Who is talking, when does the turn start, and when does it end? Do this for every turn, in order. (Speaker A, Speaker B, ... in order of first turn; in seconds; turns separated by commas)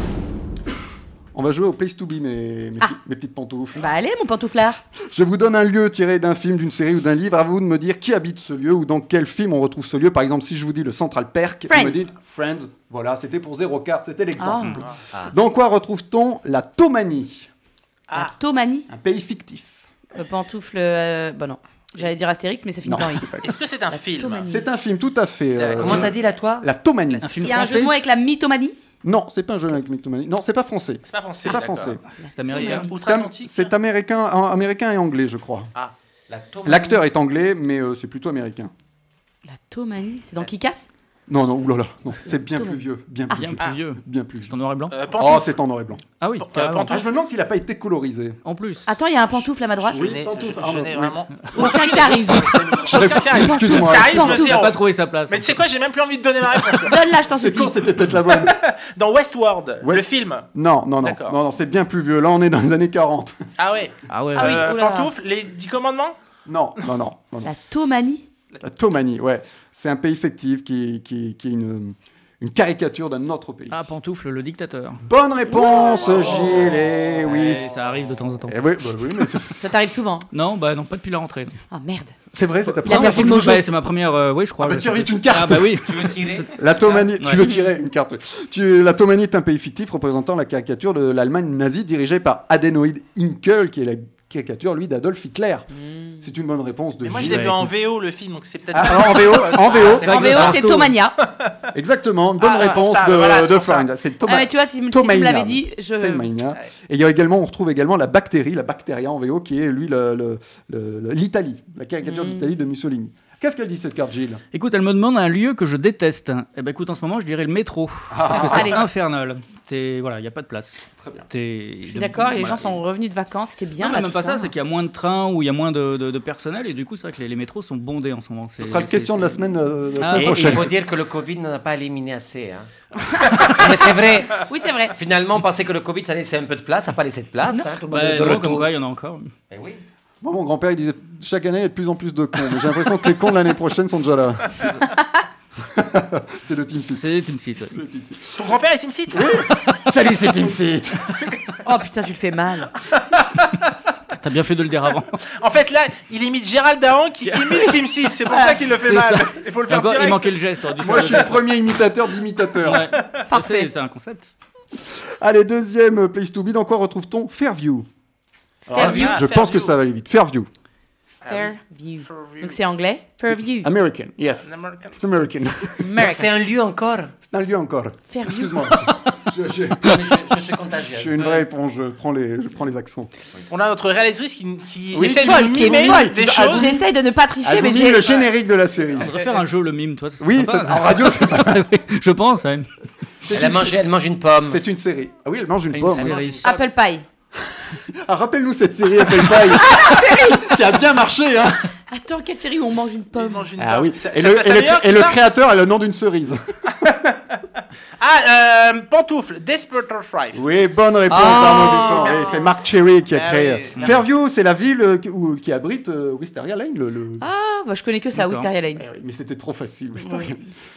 Speaker A: 1.3-3.9, Speaker B: 3.8-4.8, Speaker A: 5.0-17.5, Speaker B: 11.7-12.0, Speaker B: 14.4-14.8, Speaker B: 18.1-18.9, Speaker A: 18.9-19.9, Speaker B: 20.1-23.4, Speaker A: 22.9-23.5, Speaker C: 23.4-24.4, Speaker B: 23.9-24.7, Speaker A: 24.5-27.5, Speaker C: 25.6-26.1, Speaker D: 25.8-26.7, Speaker E: 27.2-27.9, Speaker B: 27.4-28.8, Speaker A: 29.0-32.0, Speaker C: 31.1-33.7, Speaker B: 32.2-32.9, Speaker E: 32.3-32.9, Speaker A: 32.9-35.7, Speaker D: 35.8-37.0, Speaker A: 36.6-38.7, Speaker B: 39.5-40.9, Speaker A: 41.3-44.5, Speaker B: 42.4-42.8, Speaker E: 43.3-45.0, Speaker C: 44.9-45.6, Speaker A: 45.2-46.0, Speaker E: 46.2-46.9, Speaker C: 46.4-47.1, Speaker A: 46.9-48.4, Speaker E: 48.5-48.9, Speaker B: 48.9-50.1, Speaker A: 49.8-51.7, Speaker C: 49.9-57.0, Speaker B: 51.5-54.7, Speaker A: 52.8-54.4, Speaker E: 54.3-55.5, Speaker B: 56.8-57.8, Speaker A: 57.3-58.6, Speaker C: 58.3-60.5, Speaker A: 59.8-63.4, Speaker C: 61.0-61.4, Speaker C: 63.6-66.2, Speaker E: 64.1-64.7, Speaker B: 64.3-65.1, Speaker A: 66.5-67.6, Speaker B: 67.4-68.3, Speaker A: 68.6-73.8, Speaker E: 73.7-75.0, Speaker A: 75.0-77.7, Speaker B: 75.5-75.8, Speaker E: 77.2-78.6, Speaker A: 78.5-79.7, Speaker B: 79.5-80.3, Speaker E: 80.3-81.5, Speaker B: 81.7-82.2, Speaker A: 82.3-83.7, Speaker B: 82.8-83.6, Speaker E: 82.8-87.4, Speaker A: 84.6-85.9, Speaker D: 85.8-86.9, Speaker A: 86.5-95.7, Speaker B: 87.4-87.7, Speaker B: 95.8-96.1, Speaker A: 96.2-97.7, Speaker C: 97.0-100.1, Speaker E: 97.3-97.6, Speaker A: 98.7-100.6, Speaker B: 99.9-101.2, Speaker E: 99.9-101.0, Speaker C: 101.3-101.5, Speaker A: 101.7-114.4, Speaker C: 102.4-103.9, Speaker B: 104.2-106.3, Speaker B: 112.0-112.5, Speaker E: 114.5-122.8, Speaker A: 118.1-118.8, Speaker B: 118.3-118.9, Speaker A: 121.0-121.3, Speaker B: 121.9-124.5, Speaker E: 123.8-129.4, Speaker A: 128.6-130.7, Speaker E: 130.0-130.7, Speaker D: 130.2-138.7, Speaker B: 133.3-133.5, Speaker B: 134.5-134.9, Speaker E: 137.9-139.3, Speaker D: 139.5-139.8, Speaker A: 140.2-144.8, Speaker A: 145.6-147.1, Speaker E: 147.0-147.8, Speaker A: 147.7-148.5, Speaker C: 148.4-149.4, Speaker A: 149.1-151.4, Speaker B: 151.7-152.7, Speaker C: 153.0-153.6, Speaker E: 154.2-155.2, Speaker C: 155.4-160.4, Speaker E: 157.3-157.8, Speaker B: 158.3-158.7, Speaker E: 158.8-161.5, Speaker A: 160.8-162.9, Speaker E: 162.6-164.3, Speaker B: 163.3-163.7, Speaker A: 165.2-167.9, Speaker A: 168.7-170.5, Speaker B: 168.7-169.2, Speaker C: 168.7-169.8, Speaker C: 171.2-172.6, Speaker B: 171.3-173.7, Speaker A: 173.3-176.0, Speaker C: 174.4-175.0, Speaker B: 175.8-176.3, Speaker D: 176.0-177.1, Speaker A: 177.2-180.2, Speaker B: 178.1-178.8, Speaker D: 179.8-181.4, Speaker A: 180.9-183.1, Speaker C: 183.5-186.8, Speaker A: 184.9-186.9, Speaker B: 185.2-188.2, Speaker A: 187.4-189.1, Speaker E: 189.0-192.7, Speaker A: 190.2-191.6, Speaker A: 193.2-193.9, Speaker D: 193.3-194.6, Speaker A: 194.5-196.2, Speaker E: 195.7-196.5, Speaker C: 196.0-196.3, Speaker B: 196.4-197.1, Speaker A: 197.5-201.7, Speaker B: 199.2-200.6, Speaker B: 201.9-203.5, Speaker C: 203.1-205.2, Speaker A: 203.6-206.7, Speaker C: 206.8-207.4, Speaker C: 208.0-210.4, Speaker A: 210.3-217.3, Speaker B: 211.1-212.3, Speaker C: 211.3-212.5, Speaker C: 213.1-213.9, Speaker B: 217.2-218.8, Speaker E: 218.2-218.5, Speaker A: 218.8-220.4, Speaker B: 220.0-220.3